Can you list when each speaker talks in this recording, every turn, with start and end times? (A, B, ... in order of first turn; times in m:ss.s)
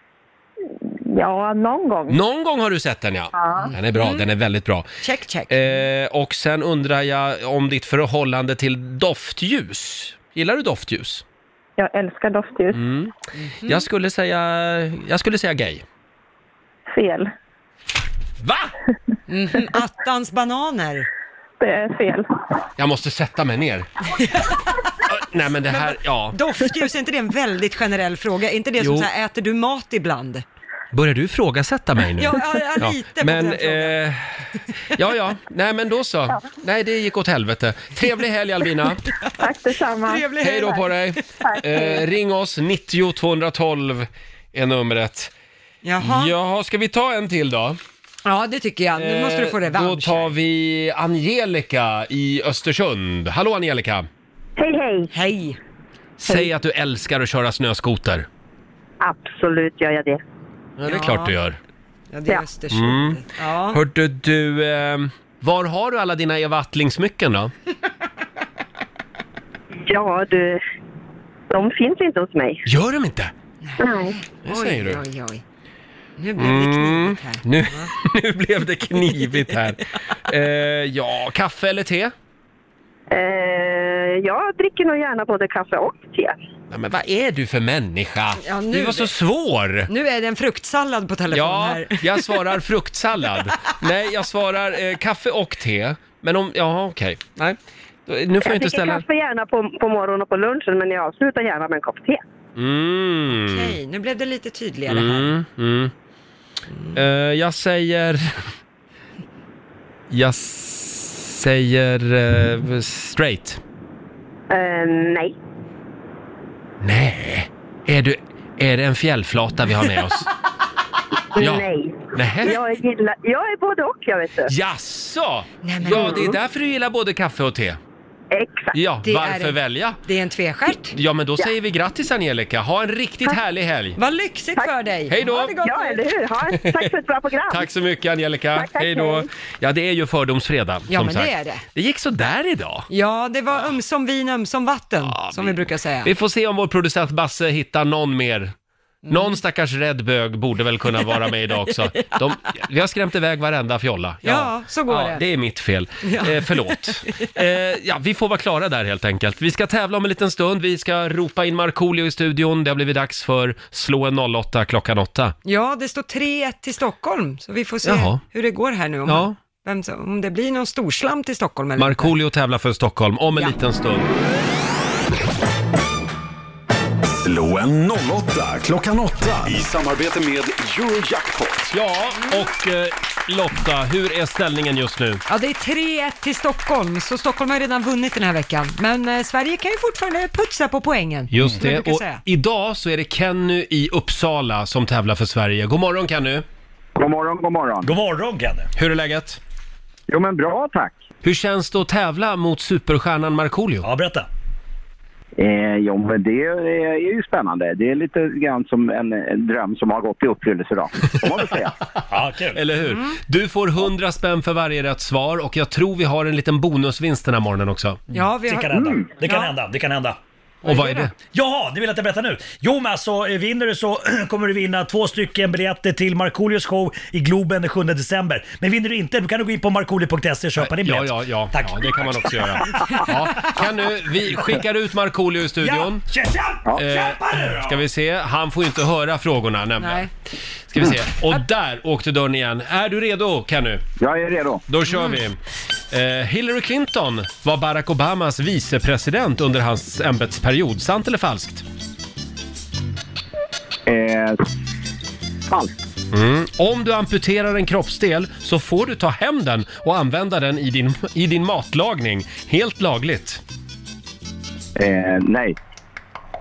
0:00.9-0:02.2 A
0:02.1-0:04.9 B
0:03.4-0:03.7 A
0:03.6-0:04.2 C
0:05.0-0:05.8 C
0:05.5-0:11.2 B
0:11.8-0:12.8 A
0:12.7-0:13.1 B
0:13.4-0:13.8 C
0:13.6-0:15.8 B
0:16.9-0:17.3 A
0:18.4-0:18.7 B
0:19.3-0:21.1 C
0:21.6-0:22.3 A
0:22.8-0:23.9 B
0:24.1-0:24.6 C
0:25.0-0:26.4 B
0:25.7-0:30.4 C
0:28.8-0:29.1 B
0:30.9-0:34.4 B
0:32.2-0:34.0 C
0:35.0-0:39.0 B
0:39.4-0:40.3 A
0:39.4-0:41.0 C
0:40.4-0:45.3 B
0:41.4-0:42.0 A
0:45.8-0:46.3 C
0:46.0-0:47.8 B
0:48.2-0:50.3 C
0:49.0-0:54.1 B
0:54.6-0:55.1 D
0:55.1-0:55.6 C
0:56.2-0:58.3 B
0:59.0-1:00.2 D
1:00.8-1:01.6 B
1:00.9-1:01.4 C
1:02.1-1:03.8 C
1:02.7-1:07.5 B
1:09.9-1:10.6 D
1:11.5-1:12.6 D
1:12.6-1:13.3 B
1:13.6-1:15.4 C
1:13.8-1:14.2 D
1:14.4-1:15.0 B
1:16.2-1:17.9 C
1:16.4-1:22.1 B
1:23.1-1:26.4 D
1:26.7-1:29.9 B
1:28.4-1:29.1 C
1:29.9-1:32.5 C
1:31.3-1:39.0 B
1:38.4-1:42.2 D
1:42.6-1:43.8 B
1:43.3-1:45.3 C
1:44.9-1:45.9 B
1:46.9-1:48.4 B
1:50.1-1:53.6 B
1:54.5-1:55.4 D
1:56.8-2:00.3 B
2:01.4-2:04.5 D
2:01.4-2:02.6 B
2:04.5-2:07.8 B
2:05.6-2:06.2 C
2:05.9-2:06.3 D
2:08.3-2:08.8 D
2:08.7-2:10.0 B
2:09.0-2:11.0 C
2:10.9-2:14.0 B
2:14.0-2:16.0 C
2:14.6-2:17.7 D
2:15.1-2:15.5 B
2:16.5-2:16.8 B
2:17.5-2:22.9 B
2:18.5-2:19.3 D
2:20.9-2:21.6 C
2:22.9-2:26.1 C
2:25.1-2:28.5 B
2:29.1-2:29.3 C
2:29.1-2:45.4 B
2:31.0-2:32.2 C
2:34.2-2:35.2 C
2:36.0-2:37.2 C
2:45.4-2:52.1 C
2:47.8-2:48.2 B
2:49.1-2:49.4 B
2:51.8-2:54.1 B
2:57.2-3:01.7 E
3:01.7-3:05.2 B
3:05.3-3:12.2 C
3:11.3-3:16.4 B
3:17.0-3:17.9 F
3:17.8-3:18.7 G
3:18.8-3:19.4 B
3:20.1-3:21.0 F
3:21.2-3:23.9 B
3:23.8-3:24.3 G
3:25.4-3:31.7 F
3:32.1-3:32.6 G
3:32.5-3:38.0 B
3:32.9-3:33.2 C
3:38.1-3:39.5 C
3:38.5-3:40.2 G
3:38.8-3:39.1 F
3:40.6-3:41.1 B
3:40.6-3:41.1 C
3:41.3-3:52.8 G
3:50.6-3:56.0 B
3:55.6-3:57.8 G
3:56.7-4:00.1 B
3:59.8-4:00.1 C
4:00.7-4:03.8 B
4:04.0-4:04.6 F
4:04.7-4:05.4 B
4:04.9-4:05.2 C
4:05.9-4:11.6 B
4:13.9-4:14.4 F
4:16.1-4:23.4 B
4:24.8-4:25.6 F